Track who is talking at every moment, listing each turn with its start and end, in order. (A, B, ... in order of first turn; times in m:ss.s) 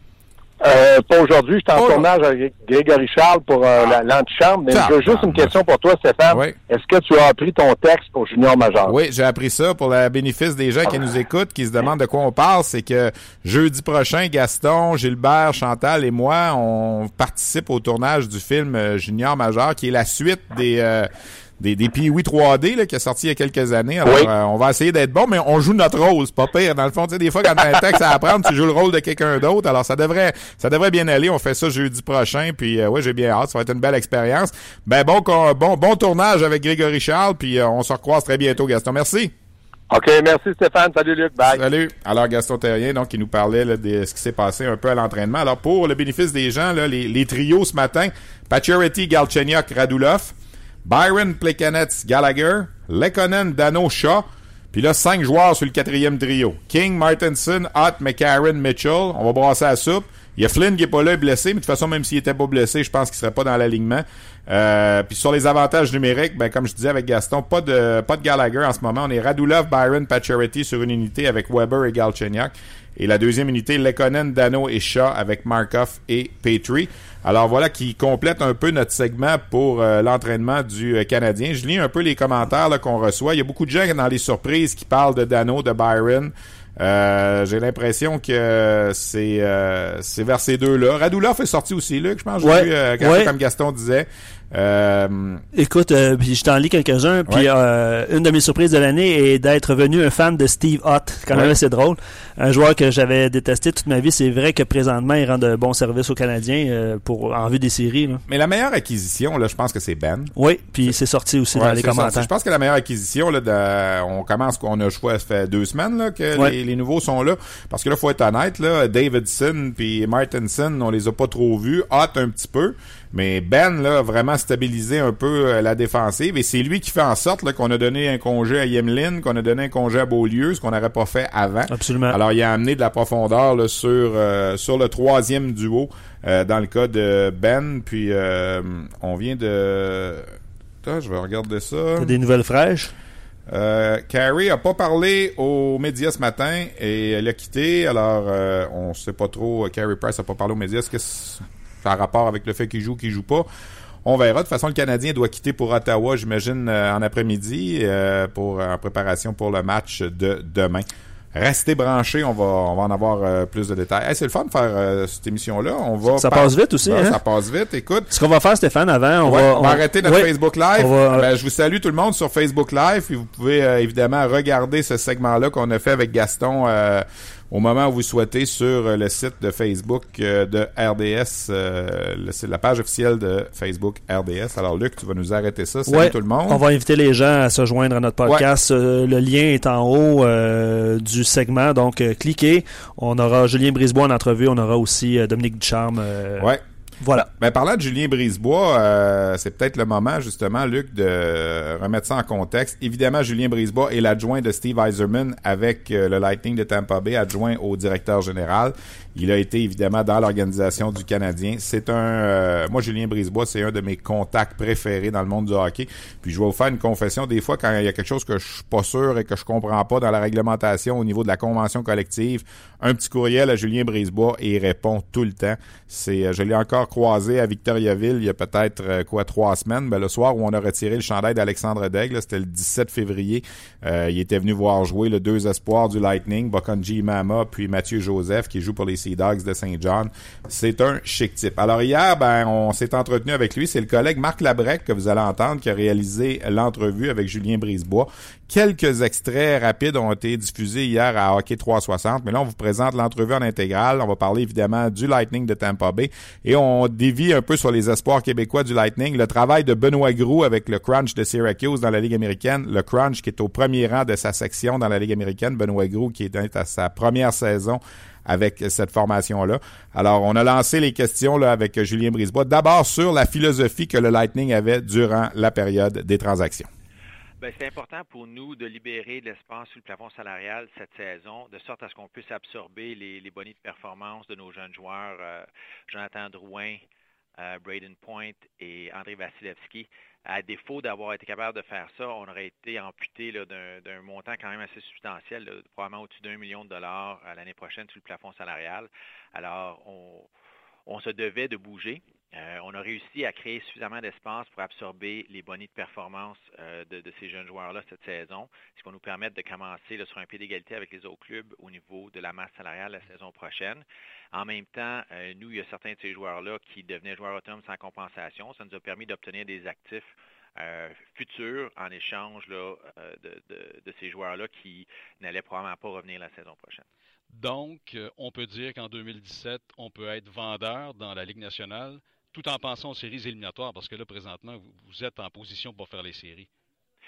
0:00.6-0:09.0 A
0:01.8-0:02.0 B
0:04.7-0:05.5 B
0:06.3-0:06.6 B
0:08.9-0:39.3 B
0:39.9-0:41.6 A
0:41.5-0:50.3 B
0:50.8-1:35.4 B
1:32.4-1:33.3 C
1:35.6-1:48.2 C
1:48.3-1:50.3 B
1:50.4-1:52.3 C
1:51.5-2:22.2 B
2:11.7-2:12.2 C
2:22.0-2:22.9 C
2:23.5-2:33.5 B
2:34.0-2:48.1 B
2:46.2-2:47.2 C
2:48.1-2:51.3 C
2:49.2-3:06.6 B
3:05.9-3:16.5 C
3:17.0-3:17.3 C
3:17.3-4:36.7 B
4:37.4-4:46.8 D
4:47.4-5:00.3 D
5:00.9-5:26.9 D
5:27.3-5:36.5 E